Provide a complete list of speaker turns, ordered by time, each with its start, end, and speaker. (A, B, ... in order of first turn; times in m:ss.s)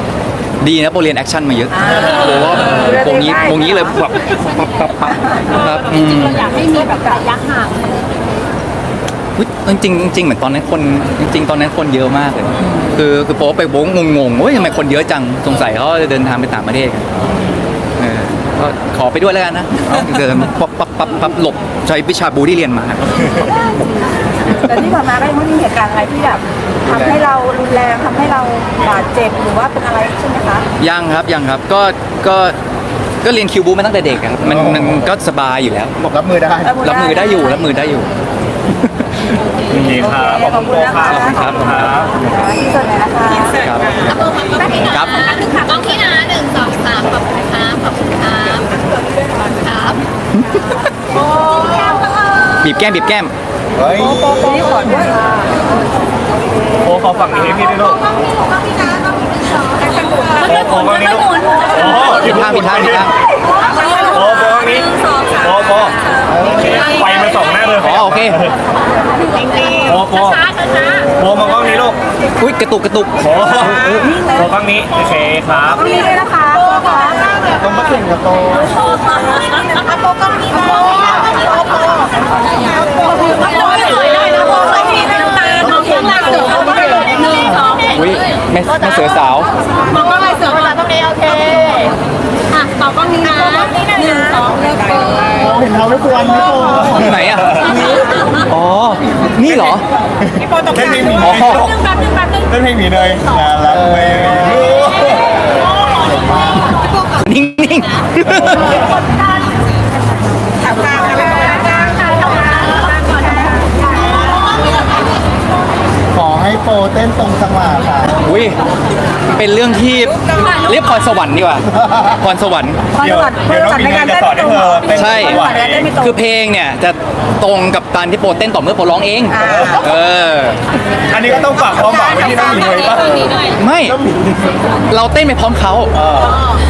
0:00.6-0:06.5 A
0:01.7-0:04.0 B
0:05.8-0:08.4 C
0:09.4-0:17.1 A
0:12.6-0:12.9 B
0:18.0-0:23.5 A
0:24.5-0:30.7 B
0:26.9-0:27.2 D
0:30.8-0:32.6 A
0:33.2-0:36.0 A
0:34.5-0:35.1 D
0:36.0-0:36.8 D
0:36.6-0:37.7 B
0:36.8-0:38.1 A
0:38.9-0:40.1 A
0:39.7-0:42.1 E
0:40.0-0:41.6 B
0:41.1-0:41.9 A
0:42.1-0:43.6 B
0:43.6-0:45.3 A
0:44.1-0:49.0 C
0:49.5-0:50.1 C
0:50.4-0:50.9 A
0:51.4-0:52.0 C
0:52.6-0:53.3 A
0:53.8-0:54.7 D
0:53.9-0:55.2 B
0:56.8-0:58.1 E
0:59.8-1:02.4 C
1:00.4-1:03.1 E
1:02.1-1:03.1 A
1:03.7-1:06.7 C
1:04.1-1:06.0 E
1:06.3-1:06.9 D
1:06.5-1:08.5 E
1:07.8-1:08.4 A
1:09.2-1:11.2 C
1:09.8-1:10.4 E
1:11.1-1:12.0 E
1:12.4-1:14.2 A
1:13.2-1:15.9 E
1:14.0-1:14.5 B
1:15.7-1:17.2 B
1:17.6-1:18.9 D
1:19.1-1:21.6 C
1:22.8-1:28.4 C
1:25.7-1:27.6 D
1:27.9-1:29.5 A
1:29.8-1:31.9 C
1:32.5-1:35.4 C
1:35.3-1:37.2 D
1:36.9-1:37.7 A
1:37.4-1:37.8 E
1:37.8-1:38.1 C
1:38.5-1:39.8 A
1:40.6-1:41.9 E
1:41.1-1:41.7 A
1:41.6-1:42.5 C
1:42.5-1:45.3 E
1:43.7-1:44.9 D
1:45.8-1:46.8 D
1:47.2-1:48.9 A
1:50.7-1:54.2 C
1:56.1-1:58.2 D
1:58.2-1:58.6 A
1:59.4-2:02.9 A
2:02.9-2:06.0 E
2:03.0-2:06.2 B
2:04.9-2:10.6 A
2:09.4-2:09.9 E
2:09.4-2:09.7 B
2:11.1-2:13.5 E
2:13.5-2:14.0 A
2:13.9-2:14.3 D
2:14.9-2:15.9 A
2:16.0-2:16.4 E